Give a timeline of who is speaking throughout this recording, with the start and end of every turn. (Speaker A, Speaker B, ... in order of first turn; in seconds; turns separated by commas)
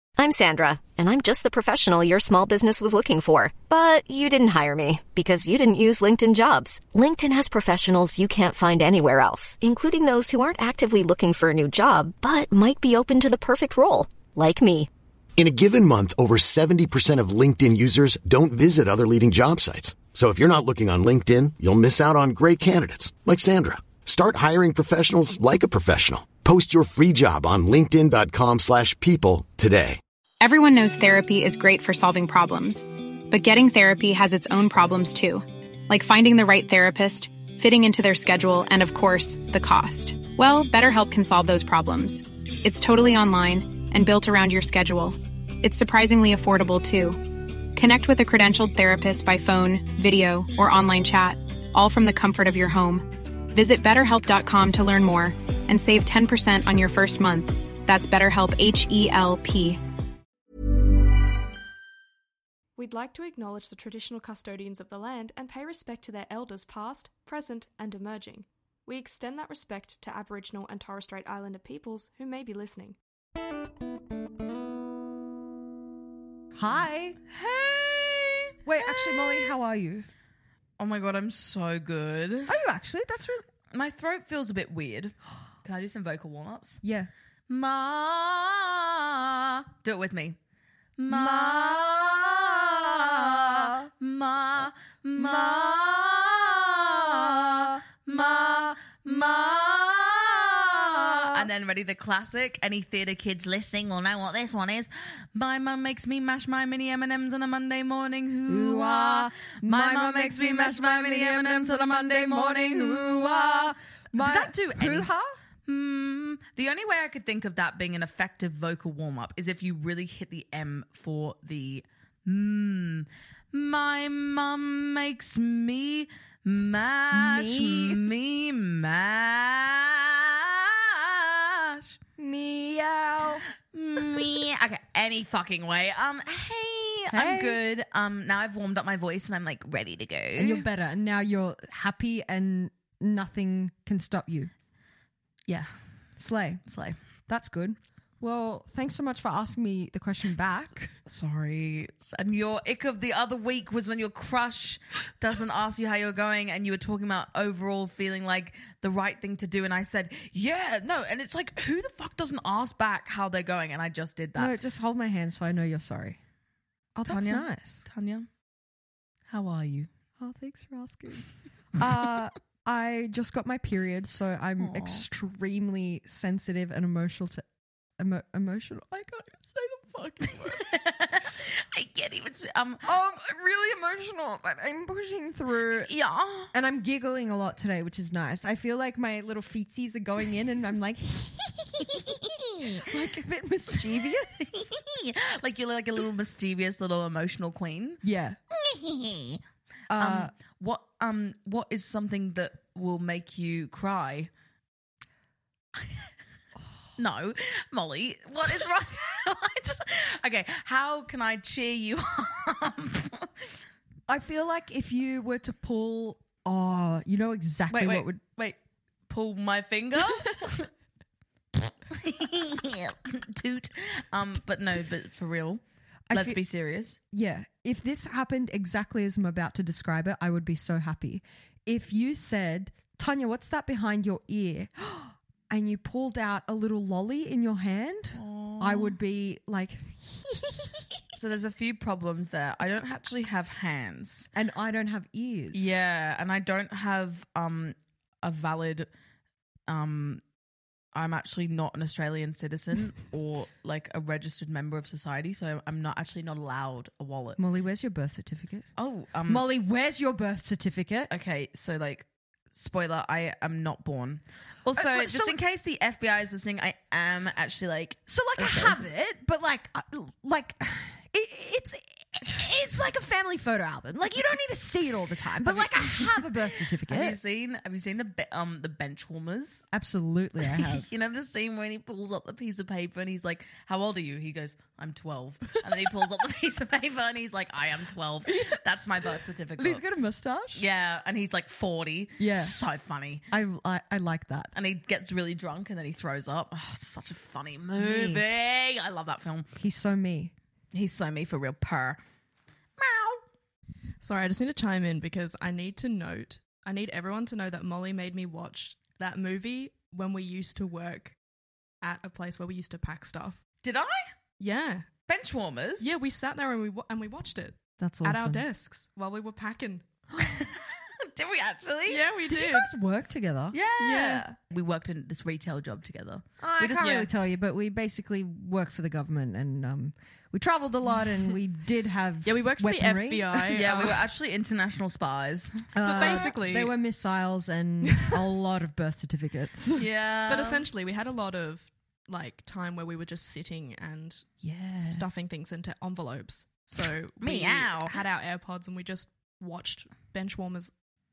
Speaker A: 0.2-14.9, Speaker B: 15.4-30.0, Speaker C: 30.4-59.8, Speaker D: 62.8-73.0, Speaker E: 76.5-77.2, Speaker F: 77.3-79.5, Speaker E: 78.7-80.1, Speaker F: 80.8-82.5, Speaker E: 82.5-83.5, Speaker F: 83.7-86.8, Speaker E: 86.8-87.1, Speaker F: 87.5-90.4, Speaker F: 91.0-115.1, Speaker E: 91.1-92.3, Speaker E: 92.9-93.9, Speaker E: 95.2-95.7, Speaker E: 100.9-101.5, Speaker E: 108.5-115.3, Speaker F: 115.7-132.0, Speaker E: 127.1-128.1, Speaker E: 132.2-133.4, Speaker F: 133.7-140.7, Speaker E: 137.1-137.6, Speaker E: 140.4-144.5, Speaker E: 146.2-146.7, Speaker F: 146.7-147.0, Speaker E: 147.3-150.9, Speaker F: 151.1-164.6, Speaker E: 164.4-166.2, Speaker E: 166.9-167.8, Speaker F: 167.1-168.3, Speaker F: 169.3-169.9, Speaker E: 170.2-177.4, Speaker F: 174.6-175.1, Speaker E: 178.0-180.7, Speaker F: 180.5-182.8, Speaker E: 182.8-185.9, Speaker F: 185.8-186.5, Speaker E: 186.5-192.2, Speaker F: 192.4-192.8, Speaker E: 192.8-194.7, Speaker F: 194.6-199.4, Speaker E: 198.0-198.4, Speaker E: 199.9-200.3, Speaker F: 200.0-204.3, Speaker F: 207.0-213.3, Speaker E: 214.1-218.2, Speaker F: 217.7-218.6, Speaker F: 219.1-220.7, Speaker F: 221.9-227.0, Speaker E: 226.1-226.4, Speaker E: 227.1-240.8, Speaker F: 238.1-239.0, Speaker F: 241.2-244.3, Speaker E: 244.3-245.8, Speaker F: 245.5-248.9, Speaker F: 249.7-250.2, Speaker F: 250.9-257.4, Speaker E: 257.4-258.7, Speaker F: 258.8-259.5, Speaker E: 259.3-261.1, Speaker F: 261.1-268.9, Speaker E: 264.8-265.4, Speaker E: 268.1-277.2, Speaker F: 275.4-279.6, Speaker E: 279.7-280.9, Speaker F: 280.5-289.8, Speaker E: 288.3-290.6, Speaker F: 290.6-293.3, Speaker E: 292.2-292.6, Speaker E: 293.3-294.5, Speaker F: 294.6-299.5, Speaker E: 297.8-298.2, Speaker E: 299.6-300.3, Speaker F: 300.7-302.0, Speaker F: 302.8-303.2, Speaker D: 304.0-311.2, Speaker D: 311.8-313.4, Speaker F: 313.6-314.0, Speaker D: 314.4-314.9, Speaker F: 315.1-315.9, Speaker D: 315.8-320.0, Speaker E: 317.8-318.5, Speaker F: 320.2-322.0, Speaker D: 321.9-322.7, Speaker E: 322.3-323.6, Speaker F: 323.5-327.1, Speaker D: 323.8-324.3, Speaker E: 326.4-333.7, Speaker D: 332.2-334.0, Speaker F: 333.5-336.2, Speaker E: 335.8-339.9, Speaker D: 335.8-336.7, Speaker F: 339.8-340.6, Speaker D: 340.3-350.7, Speaker E: 344.4-345.1, Speaker F: 347.2-347.9